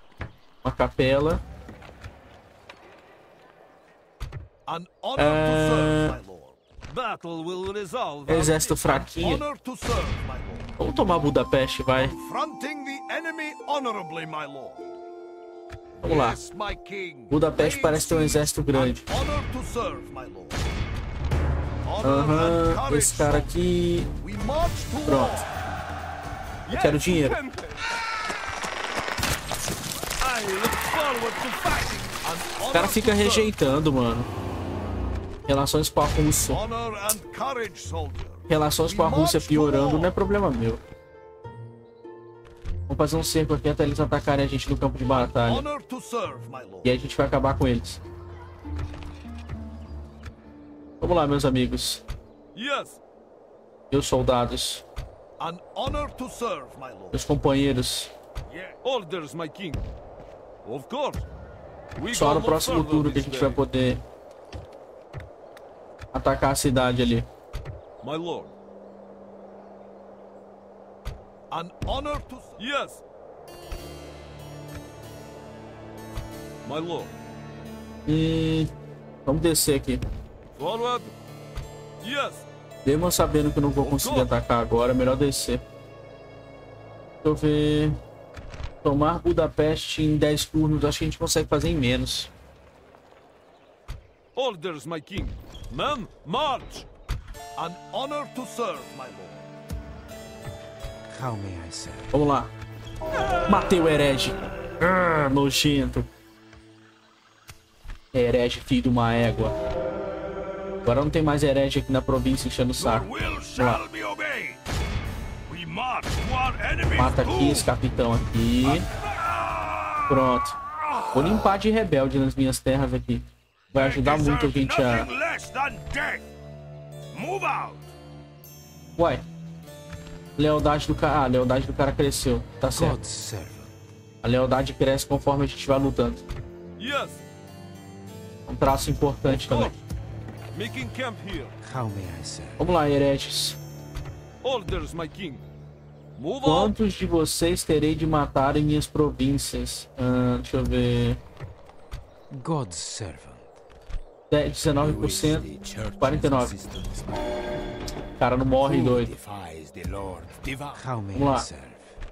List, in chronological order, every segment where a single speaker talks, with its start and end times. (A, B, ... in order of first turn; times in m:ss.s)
0:00.6-0:01.4 A
0:04.7-0:06.6 B
0:05.2-0:06.2 A
0:06.9-0:08.6 C
0:08.3-0:09.4 A
0:08.4-0:10.7 B
0:10.8-0:12.2 A
0:12.0-0:15.0 B
0:16.0-0:20.7 B
0:16.0-0:16.4 A
0:17.3-0:19.0 A
0:21.8-0:23.6 B
0:22.0-0:24.1 A
0:24.2-0:25.5 B
0:25.1-0:25.4 A
0:26.7-0:27.8 C
0:26.7-0:27.4 A
0:30.2-0:32.1 C
0:32.2-0:33.5 B
0:32.7-0:34.3 A
0:35.5-0:36.6 A
0:36.5-0:40.2 B
0:38.5-0:40.8 A
0:42.9-0:45.6 A
0:45.1-0:47.0 B
0:46.8-0:48.0 A
0:51.0-0:52.0 A
0:52.6-0:53.0 C
0:53.9-0:54.8 A
0:55.4-0:57.2 B
0:57.1-0:58.1 A
0:58.8-0:59.8 C
1:00.6-1:01.2 C
1:02.0-1:03.6 C
1:02.1-1:04.0 A
1:06.1-1:07.2 A
1:08.0-1:08.5 C
1:11.5-1:12.6 B
1:12.6-1:13.0 C
1:16.6-1:17.1 C
1:18.1-1:18.7 A
1:19.3-1:20.0 A
1:20.6-1:21.1 C
1:22.0-1:22.5 C
1:22.8-1:25.6 A
1:23.8-1:24.3 C
1:27.2-1:28.0 A
1:28.8-1:32.3 A
1:34.4-1:36.9 C
1:37.6-1:39.5 B
1:41.1-1:42.1 D
1:42.1-1:42.5 A
1:43.5-1:46.1 A
1:48.1-1:49.6 A
1:50.8-1:53.8 A
1:52.8-1:54.6 B
1:55.5-1:57.7 B
1:57.0-1:58.9 A
1:58.6-2:00.2 B
2:00.1-2:00.6 A
2:00.8-2:01.4 B
2:01.1-2:05.1 A
2:03.7-2:06.3 B
2:07.1-2:07.9 B
2:09.0-2:09.2 A
2:10.4-2:13.0 A
2:12.7-2:13.7 D
2:14.2-2:16.2 A
2:16.8-2:17.2 C
2:18.5-2:19.8 A
2:19.3-2:19.8 C
2:20.5-2:21.6 C
2:21.6-2:22.7 D
2:22.6-2:23.6 A
2:24.4-2:25.4 C
2:26.2-2:26.8 C
2:26.4-2:31.2 A
2:32.3-2:33.5 D
2:34.3-2:36.5 A
2:34.7-2:37.2 D
2:38.2-2:39.1 A
2:38.6-2:42.0 D
2:41.1-2:41.5 A